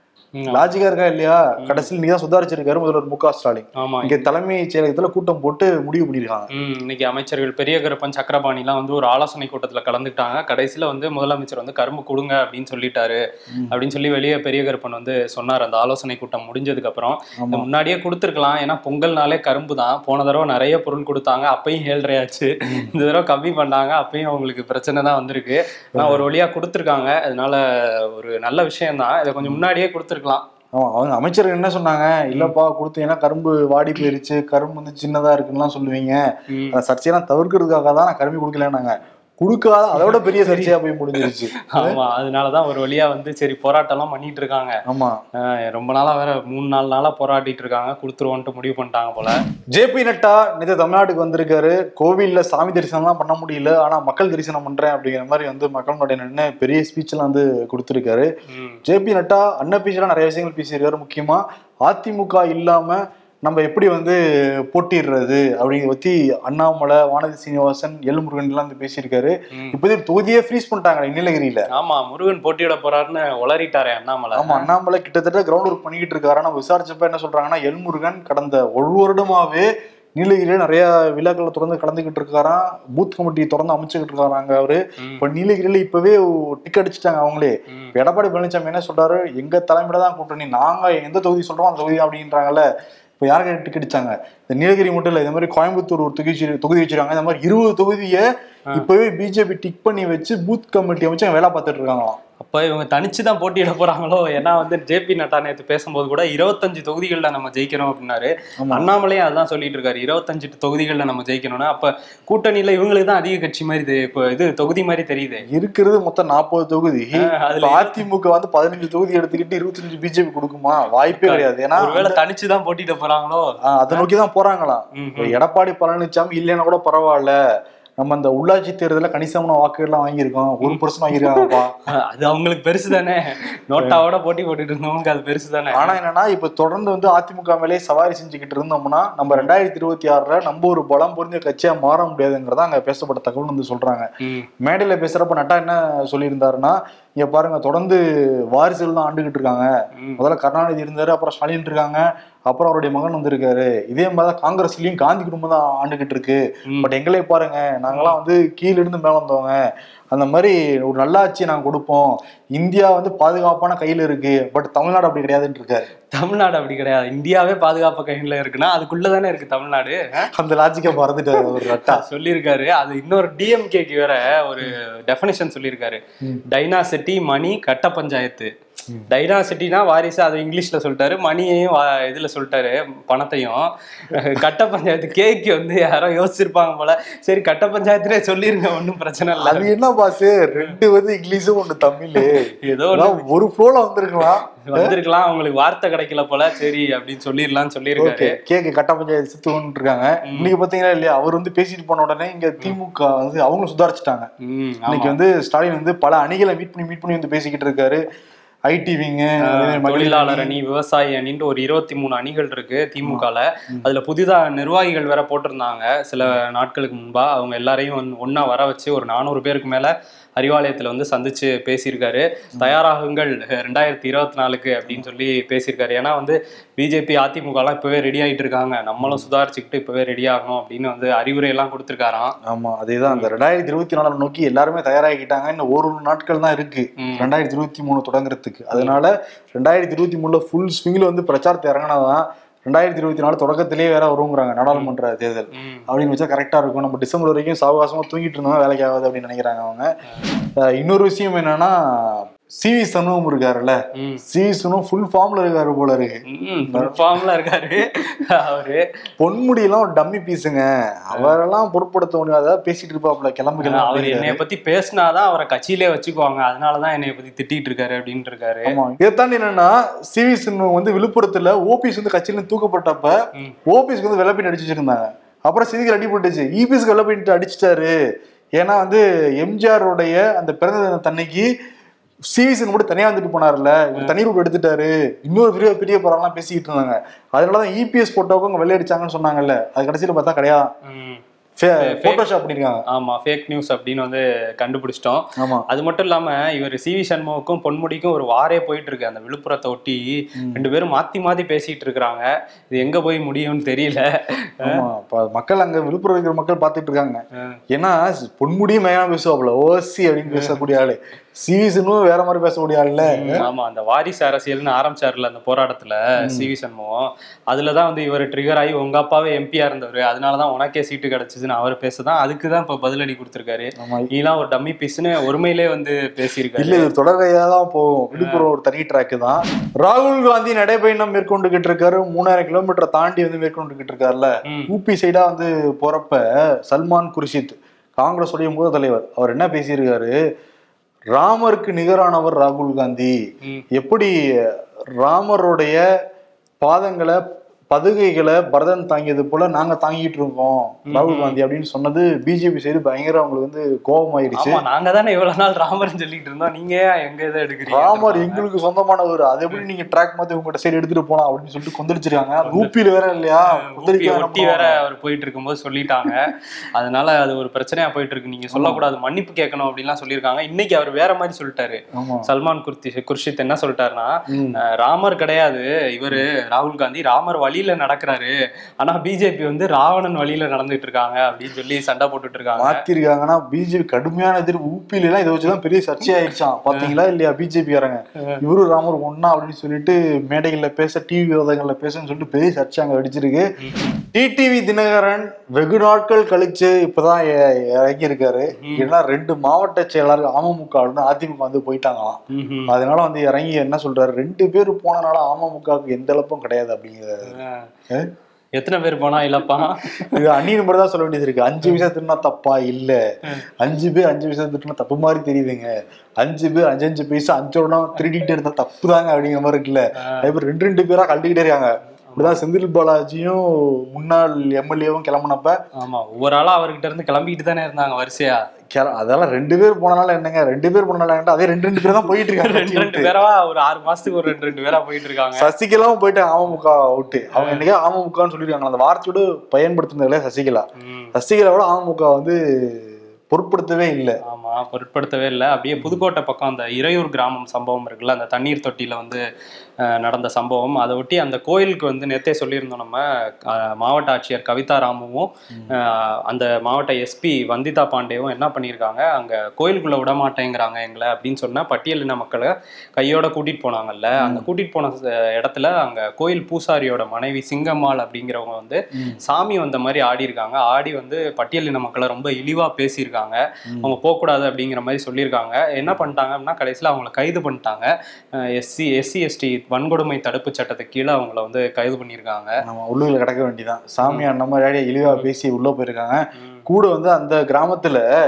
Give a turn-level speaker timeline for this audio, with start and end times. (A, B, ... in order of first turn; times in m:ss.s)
0:00.4-0:00.7 A
0:00.5-0:06.5 B
0:03.8-0:04.3 A
0:06.5-0:30.4 A
0:17.4-0:17.6 B
0:26.0-0:26.2 B
0:30.8-0:36.2 B
0:36.5-0:36.8 A
0:36.7-0:42.0 B
0:39.9-0:44.8 A
0:44.9-0:45.2 B
0:45.4-0:49.4 A
0:49.7-0:58.3 B
0:58.5-0:58.8 A
0:58.8-1:04.2 B
1:04.7-1:11.6 B
1:11.7-1:14.7 A
1:14.3-1:32.6 B
1:33.2-1:42.2 B
1:42.4-1:55.4 A
1:48.6-1:48.9 B
1:55.5-2:02.2 B
1:57.2-1:58.0 A
2:01.1-2:04.1 A
2:03.7-2:07.4 B
2:05.0-2:05.4 A
2:08.0-2:11.8 B
2:10.6-2:16.0 A
2:15.7-2:24.1 B
2:24.6-2:28.0 B
2:28.5-2:39.6 B
2:30.0-2:30.2 A
2:37.9-2:38.2 A
2:40.1-2:45.9 B
2:46.1-2:50.3 A
2:50.4-2:52.0 B
2:51.3-2:58.5 A
2:59.1-3:09.7 A
3:09.4-3:14.9 B
3:12.1-3:13.2 A
3:14.2-3:18.4 A
3:18.0-3:24.3 B
3:20.3-3:20.5 A
3:24.4-3:25.2 A
3:24.9-3:28.0 B
3:28.7-3:30.5 B
3:29.4-3:52.3 A
3:49.0-3:49.2 B
3:52.5-4:09.9 B
3:57.0-3:57.3 A
4:05.5-4:05.8 A
4:10.6-4:13.8 B
4:14.3-4:16.2 B
4:16.3-4:18.8 A
4:16.7-4:17.0 B
4:19.2-4:24.4 B
4:23.6-4:28.8 A
4:28.7-4:33.1 B
4:33.7-4:37.9 B
4:38.6-4:41.5 B
4:42.3-4:50.7 B
4:50.9-4:51.2 A
4:51.6-4:52.8 B
4:51.8-4:52.2 A
4:52.9-5:04.8 A
4:55.4-4:55.7 B
5:04.6-5:07.2 B
5:07.7-5:13.4 B
5:10.3-5:10.6 A
5:13.0-5:26.9 A
5:23.8-5:24.1 B
5:26.6-5:40.1 B
5:28.1-5:28.5 A
5:41.1-5:43.1 B
5:43.7-5:44.1 B
5:45.0-5:45.8 B
5:46.6-5:47.2 B
5:47.7-5:54.6 B
5:50.9-5:51.4 A
5:54.3-5:58.4 A
5:57.7-6:04.8 B
6:02.4-6:02.7 A
6:03.6-6:22.8 A
6:08.5-6:08.8 B
6:12.0-6:12.3 B
6:14.3-6:14.6 B
6:22.6-6:33.4 B
6:33.6-6:34.0 A
6:34.1-6:47.3 B
6:38.6-6:38.9 A
6:42.3-6:42.7 A
6:47.3-6:47.7 A
6:48.6-6:50.4 A
6:50.0-6:53.0 B
6:51.6-6:51.9 A
6:53.6-7:05.5 B
7:02.1-7:02.4 A
7:05.8-7:08.4 A
7:08.7-7:13.1 B
7:11.8-7:15.5 A
7:15.4-7:24.2 B
7:17.3-7:17.6 A
7:20.8-7:21.1 A
7:24.3-7:29.2 A
7:29.8-8:02.5 A
7:44.2-7:44.4 B
8:02.6-8:08.0 B